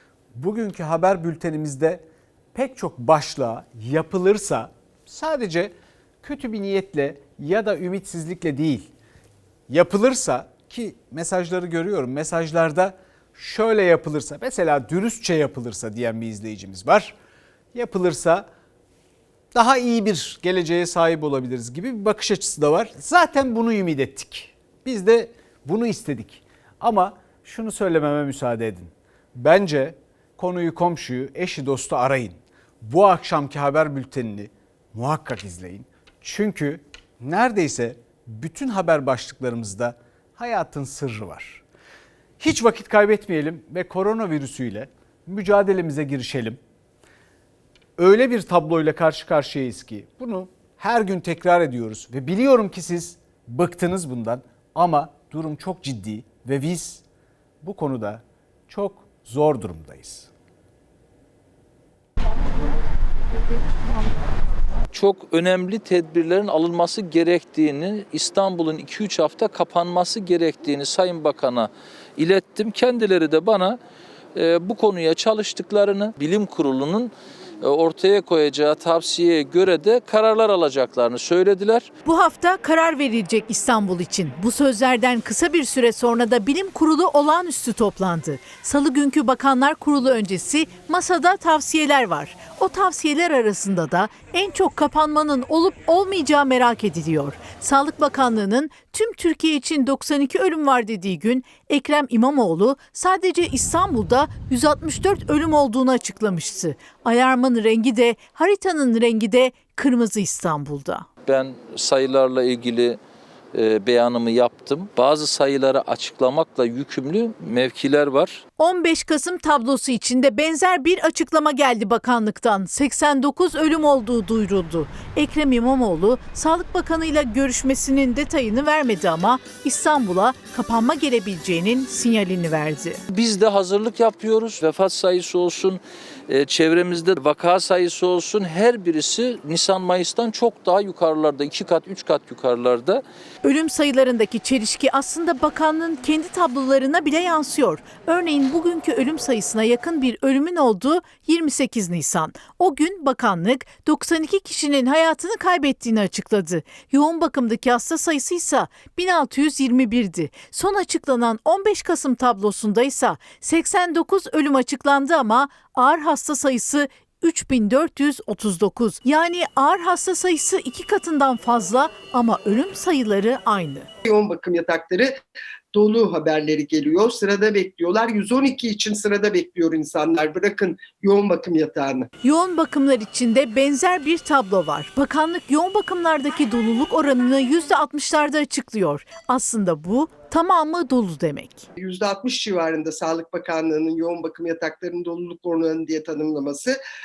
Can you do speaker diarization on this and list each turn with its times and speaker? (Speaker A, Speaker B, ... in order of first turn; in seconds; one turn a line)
Speaker A: 0.3-2.0
Speaker A: 2.5-5.7
Speaker A: 6.2-8.9
Speaker A: 9.7-17.1
Speaker A: 17.8-18.5
Speaker A: 19.5-41.6
Speaker A: 42.4-46.6
Speaker A: 48.0-57.0
Speaker A: 57.6-60.3
Speaker B: 64.9-73.8
Speaker B: 74.3-81.9
Speaker C: 82.0-111.1
Speaker B: 111.3-113.0
Speaker B: 113.5-118.4
Speaker C: 118.6-133.0
Speaker B: 133.1-143.0
Speaker C: 143.4-173.9
Speaker D: 174.1-175.2
Speaker D: 175.7-182.1
Speaker C: 182.2-191.7
Speaker D: 191.8-196.8